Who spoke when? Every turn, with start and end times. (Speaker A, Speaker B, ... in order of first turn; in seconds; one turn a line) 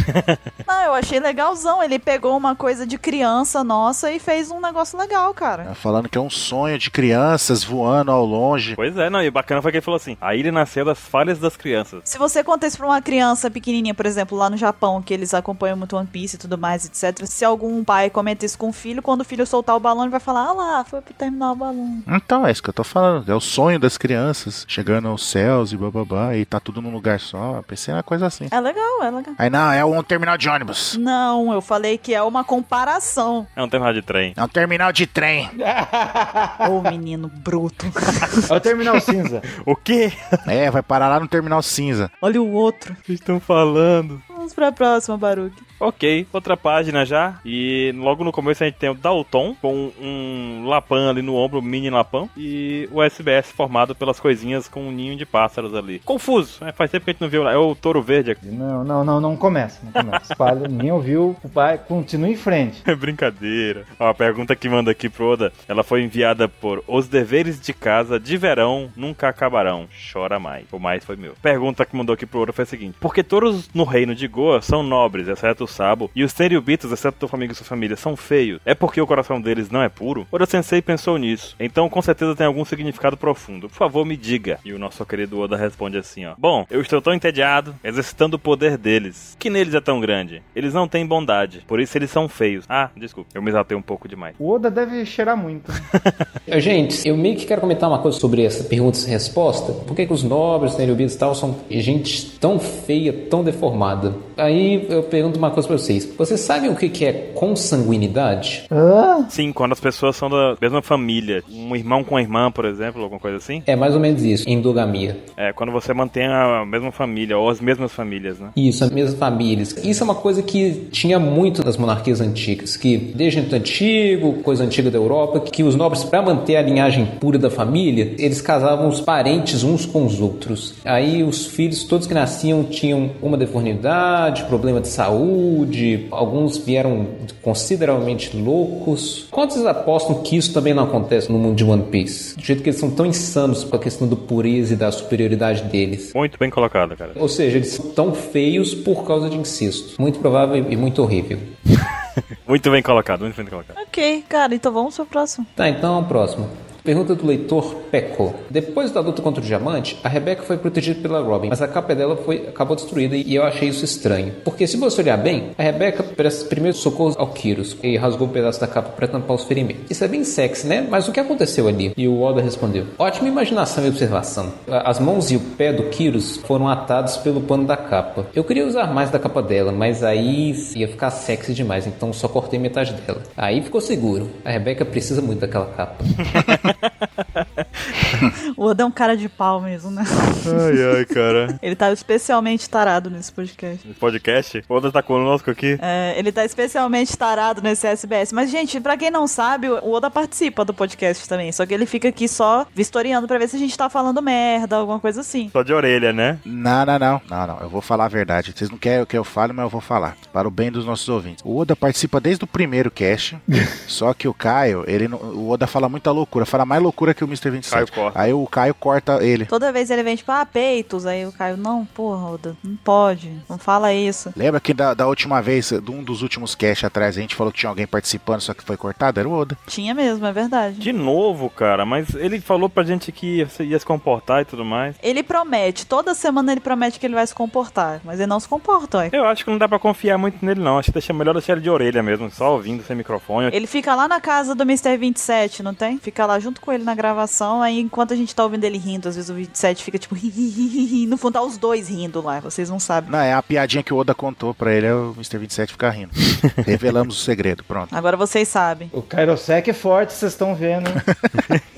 Speaker A: 0.1-0.4
Speaker B: 0.7-5.7
Speaker C: 5.7-8.8
Speaker A: 8.8-12.0
Speaker B: 12.1-22.1
Speaker C: 22.1-28.5
Speaker B: 28.5-29.4
Speaker C: 29.4-31.0
Speaker B: 30.9-33.5
Speaker A: 33.6-34.4
Speaker C: 34.4-35.5
Speaker D: 35.5-36.8
Speaker B: 36.6-38.5
Speaker D: 38.5-39.5
Speaker A: 39.5-40.4
Speaker C: 40.5-42.1
Speaker B: 42.2-43.0
Speaker A: 43.1-44.2
Speaker B: 44.3-45.6
Speaker A: 45.8-58.4
Speaker D: 58.4-62.8
Speaker A: 60.0-60.5
Speaker A: 62.9-94.4
Speaker D: 94.4-95.8
Speaker E: 96.5-108.7
Speaker D: 108.7-109.3
Speaker A: 109.3-113.7
Speaker E: 113.7-115.2
Speaker A: 115.4-118.5
Speaker E: 118.6-146.1
Speaker A: 146.1-147.2
Speaker E: 147.2-151.5
Speaker A: 152.5-153.8
Speaker B: 153.8-155.5
Speaker E: 155.6-186.5
Speaker A: 186.3-186.7
Speaker B: 188.6-190.8
Speaker A: 190.4-191.6
Speaker B: 191.6-193.8
Speaker A: 193.9-195.8
Speaker B: 195.8-205.5
Speaker A: 205.5-206.4
Speaker C: 206.4-219.5
Speaker A: 217.7-218.3
Speaker B: 219.5-224.3
Speaker C: 224.4-229.6
Speaker B: 229.7-230.9
Speaker A: 230.8-235.0
Speaker B: 235.0-239.1
Speaker A: 239.1-243.5
Speaker B: 243.5-253.1
Speaker C: 253.1-257.9
Speaker B: 257.9-258.9
Speaker D: 258.9-261.0